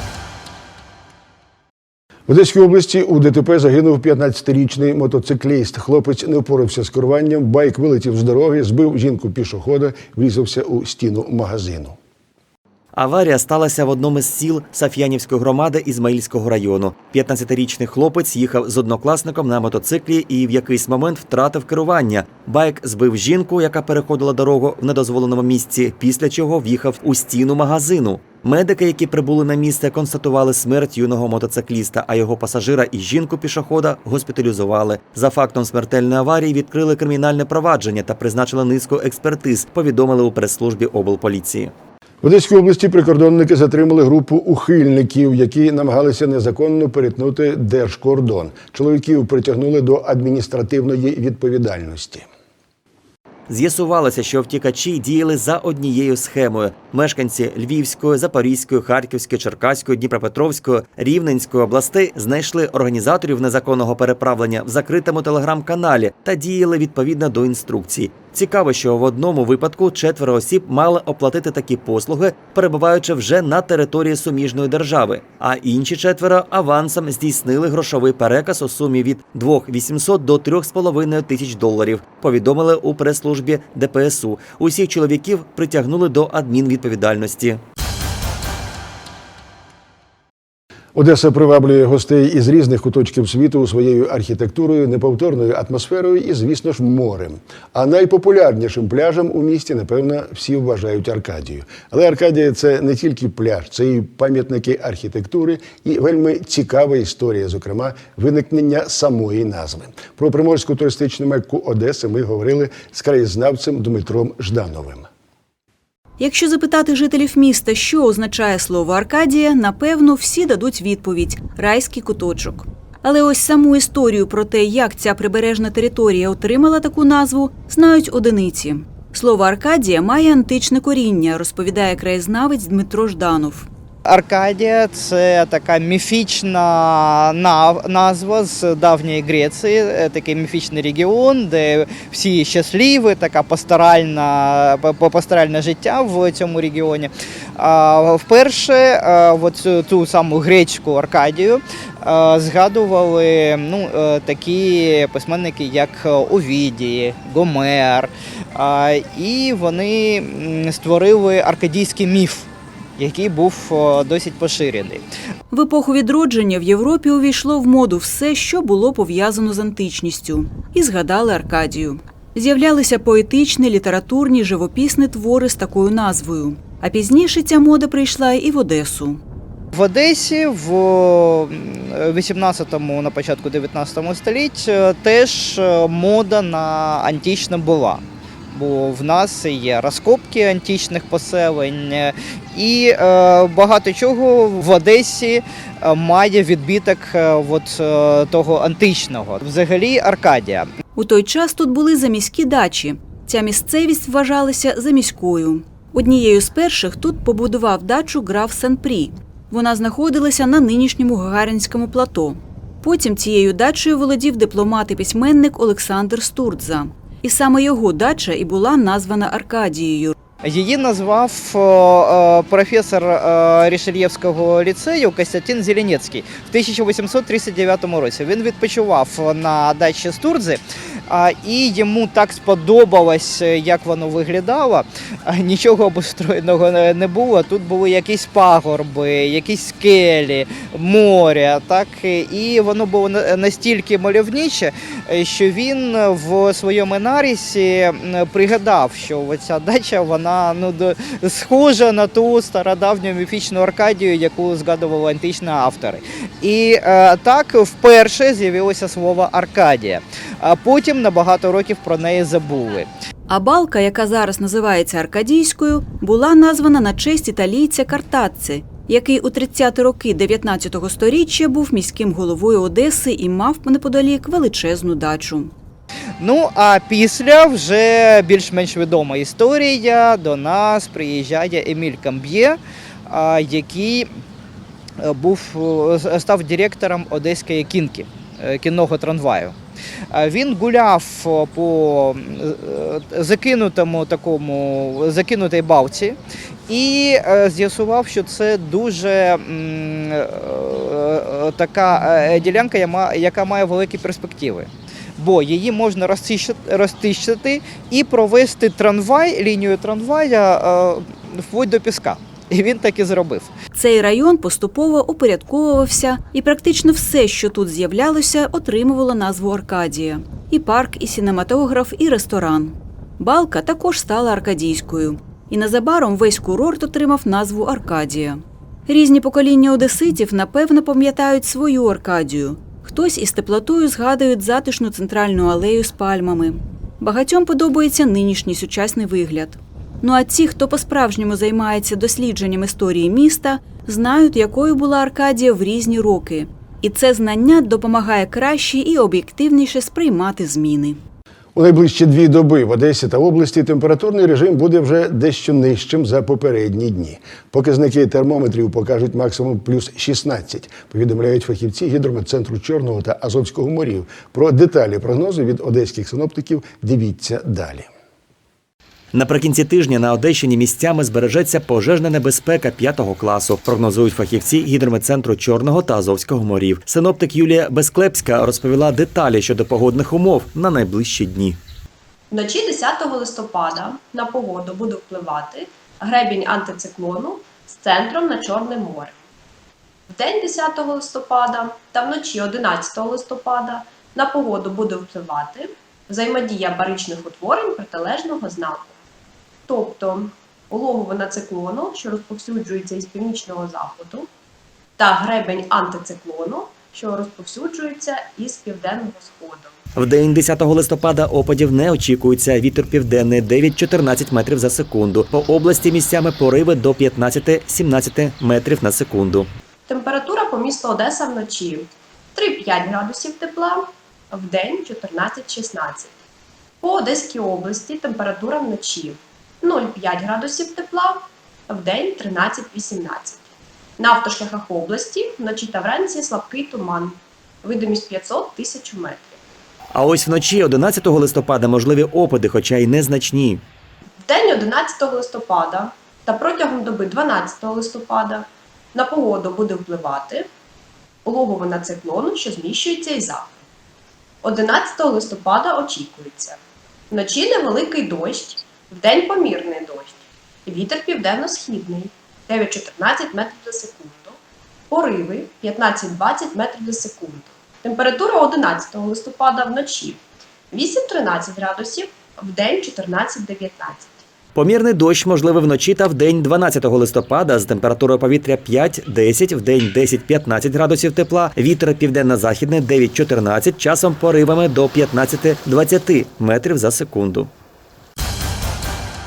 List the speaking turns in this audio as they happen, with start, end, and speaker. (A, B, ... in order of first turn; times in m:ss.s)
0:02.3-0:12.0 A
0:12.9-0:41.7 B
0:42.2-0:52.3 A
0:53.5-1:27.6 B
1:31.0-1:55.1 A
1:56.2-2:13.7 C
2:14.0-2:45.0 D
2:45.5-2:59.2 C
2:59.7-3:20.7 D
3:21.0-3:40.2 C
3:40.4-4:22.9 D
4:23.3-4:35.5 C
4:36.2-4:44.2 D
4:45.0-4:49.6 D
4:50.1-4:56.2 D
4:56.7-5:13.5 D
5:13.7-5:51.0 C
5:51.6-6:07.9 A
6:09.1-6:21.6 B
6:22.3-6:29.2 E
6:30.1-6:39.0 E
6:39.7-6:44.3 E
6:45.0-6:49.8 E
6:50.0-6:59.5 B
6:59.9-7:06.2 E
7:06.8-7:19.4 E
7:19.9-7:23.6 B
7:24.2-7:30.5 E
7:31.2-7:33.6 E
7:34.4-7:36.6 E
7:37.1-7:44.4 E
7:44.9-7:54.2 E
7:54.6-8:07.5 B